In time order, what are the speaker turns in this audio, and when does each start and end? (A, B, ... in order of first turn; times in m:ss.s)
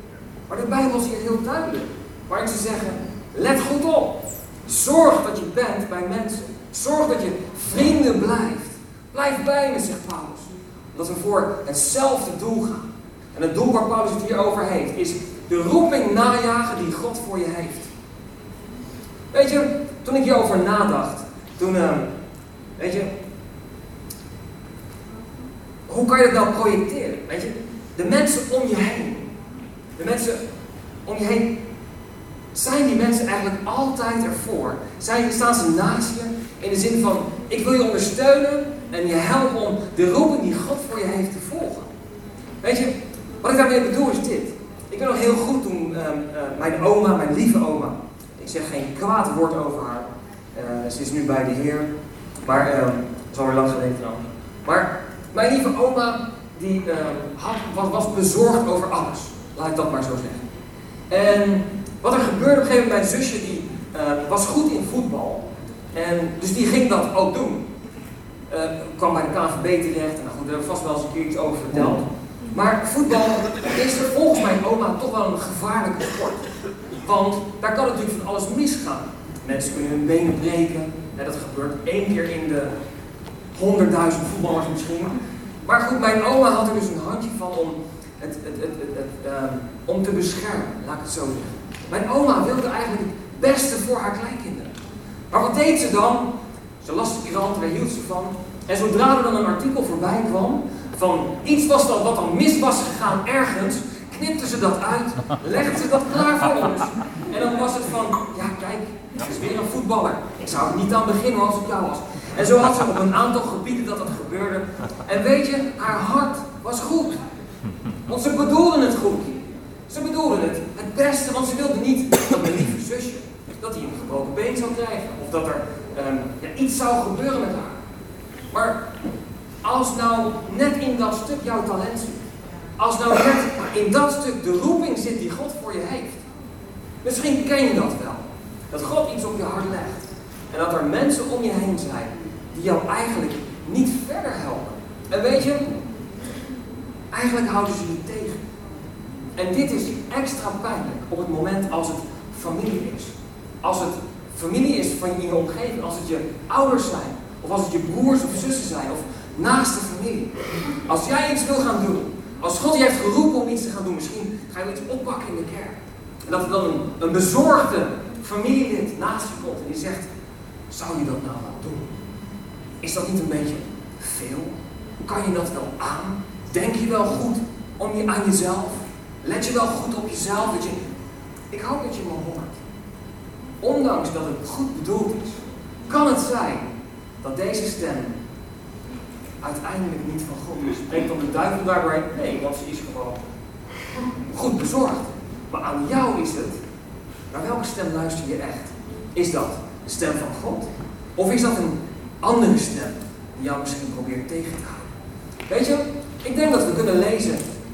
0:00.5-0:17.9 A
0:19.3-0:22.1 A
0:22.8-0:23.1 A
0:25.9-0:29.3 A
0:30.0-0:30.4 A
0:31.1-0:31.5 A
0:32.5-0:41.9 A
0:42.6-0:51.9 A
0:52.4-1:00.4 A
1:01.1-1:05.4 A
1:05.9-1:07.6 A
1:08.5-1:22.7 A
1:23.6-1:34.7 A
1:35.3-1:36.3 A
1:36.8-1:57.2 A
1:58.1-2:07.8 A
2:08.5-2:08.8 A
2:09.6-2:12.2 A
2:12.8-2:16.2 A
2:17.0-2:25.8 A
2:27.1-2:28.4 A
2:29.4-2:40.3 A
2:40.9-2:45.8 A
2:46.3-2:50.1 A
2:50.7-2:51.9 A
2:52.8-2:54.6 A
2:55.1-3:00.8 A
3:01.5-3:02.6 A
3:03.6-3:06.7 A
3:07.2-3:08.1 A
3:09.4-3:13.2 A
3:14.3-3:16.6 A
3:17.3-3:24.9 A
3:25.5-3:27.4 A